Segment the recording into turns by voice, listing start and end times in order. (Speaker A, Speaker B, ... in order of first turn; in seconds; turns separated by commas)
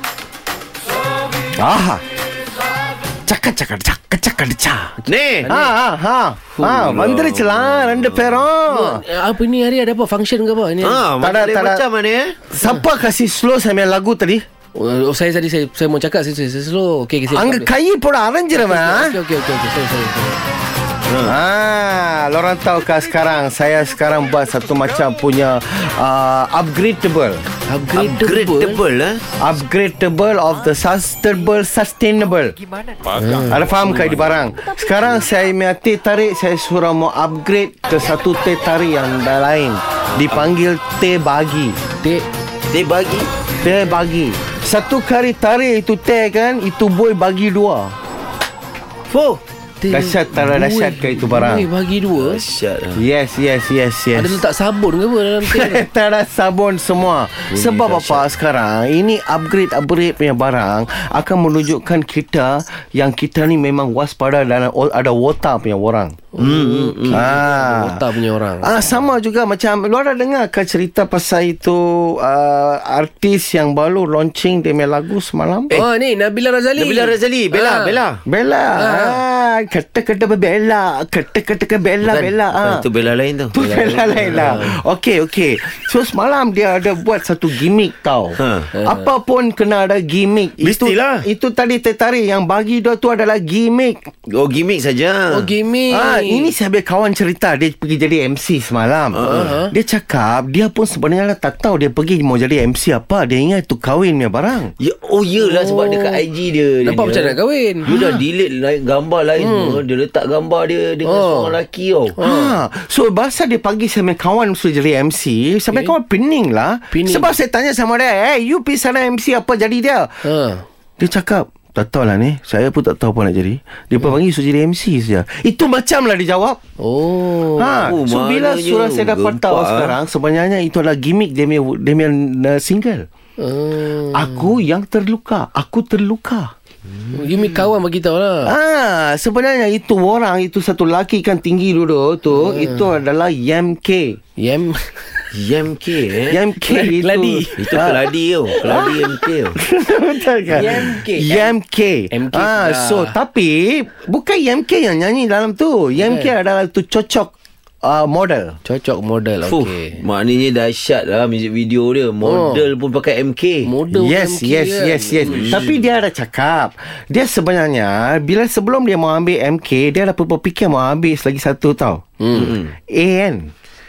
Speaker A: 1.6-2.0, Speaker A: 3.3-5.0, Speaker B: 5.1-5.5, Speaker C: 5.5-5.7, Speaker A: 5.5-9.0, Speaker B: 6.6-8.4, Speaker C: 8.7-11.0, Speaker B: 10.8-12.3, Speaker A: 11.2-11.8, Speaker A: 12.5-14.4, Speaker C: 14.8-17.7, Speaker A: 17.3-19.2, Speaker C: 18.5-20.4, Speaker B: 21.1-21.4, Speaker A: 21.2-27.4, Speaker C: 27.7-28.8, Speaker B: 28.0-29.2, Speaker A: 29.4-32.6, Speaker C: 33.1-34.2, Speaker A: 33.3-41.8, Speaker B: 42.7-43.3, Speaker A: 43.6-48.0, Speaker B: 49.1-49.4, Speaker C: 49.8-52.4, Speaker A: 49.9-51.7, Speaker B: 52.2-53.0, Speaker A: 53.0-54.4, Speaker C: 54.1-55.8, Speaker A: 55.4-66.2, Speaker B: 57.5-58.3, Speaker C: 66.3-68.8, Speaker B: 66.4-67.2, Speaker A: 67.1-68.0, Speaker A: 68.6-75.8, Speaker C: 75.7-78.0, Speaker B: 76.8-78.2, Speaker A: 78.3-82.8, Speaker C: 78.8-79.2, Speaker B: 82.0-84.6, Speaker A: 83.5-94.1, Speaker C: 83.7-84.8, Speaker B: 88.4-88.7, Speaker C: 88.8-89.1, Speaker B: 90.6-91.2, Speaker B: 94.3-95.5, Speaker C: 95.3-96.5, Speaker A: 95.9-104.7, Speaker B: 99.2-99.5, Speaker C: 99.2-99.7, Speaker B: 104.8-112.2, Speaker C: 105.4-106.2, Speaker C: 106.8-107.9, Speaker A: 107.9-108.2, Speaker C: 109.4-109.8, Speaker C: 111.0-111.6, Speaker C: 112.2-112.6, Speaker A: 112.2-120.3, Speaker C: 116.9-117.3, Speaker C: 120.2-120.6, Speaker A: 121.0-126.6, Speaker C: 126.8-127.9, Speaker A: 127.6-133.1, Speaker B: 127.8-130.0, Speaker C: 133.4-134.5, Speaker A: 134.1-136.5, Speaker B: 137.0-137.4, Speaker C: 137.1-138.5, Speaker A: 138.4-144.2, Speaker C: 142.3-142.9, Speaker C: 144.4-145.0, Speaker B: 145.3-146.4, Speaker A: 146.3-148.1, Speaker C: 146.7-147.6, Speaker B: 147.6-149.6, Speaker A: 148.6-157.3, Speaker C: 150.5-151.5, Speaker C: 152.1-153.2, Speaker C: 156.0-156.3, Speaker A: 157.8-158.6, Speaker C: 158.7-160.0, Speaker B: 159.5-163.7, Speaker C: 162.2-162.6, Speaker C: 163.7-165.6, Speaker A: 163.9-172.0, Speaker B: 165.3-165.8, Speaker C: 172.2-172.5, Speaker B: 172.3-172.7, Speaker A: 172.9-173.5